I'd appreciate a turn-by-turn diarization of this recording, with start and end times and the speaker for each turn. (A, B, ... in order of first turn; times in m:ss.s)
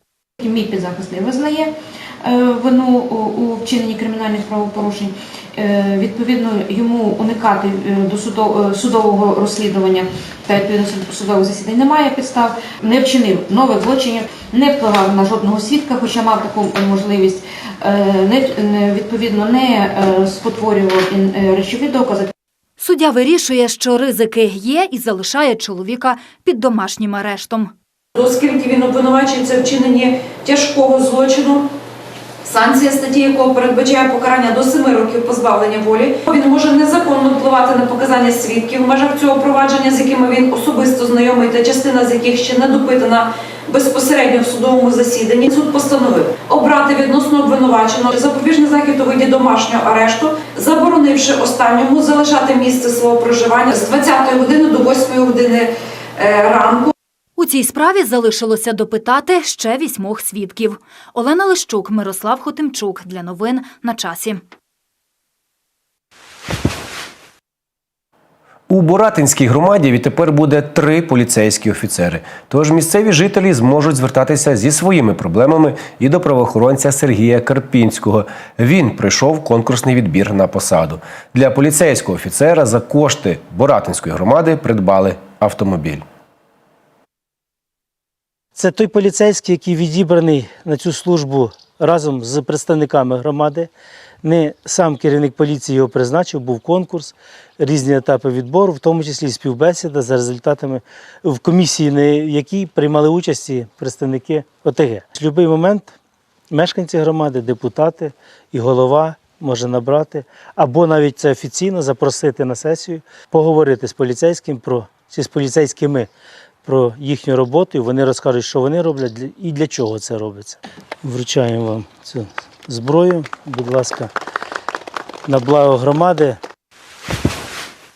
0:00.4-0:22.3 A
0:22.8-0:27.7 B
0:28.1-0:31.7 C
0:32.4-0:56.9 C
0:57.4-1:04.4 B
1:08.7-1:26.0 D
1:28.6-1:33.7 E
1:34.2-1:45.9 E
1:46.5-1:56.1 E
1:56.6-2:04.1 E
2:05.3-2:06.4 E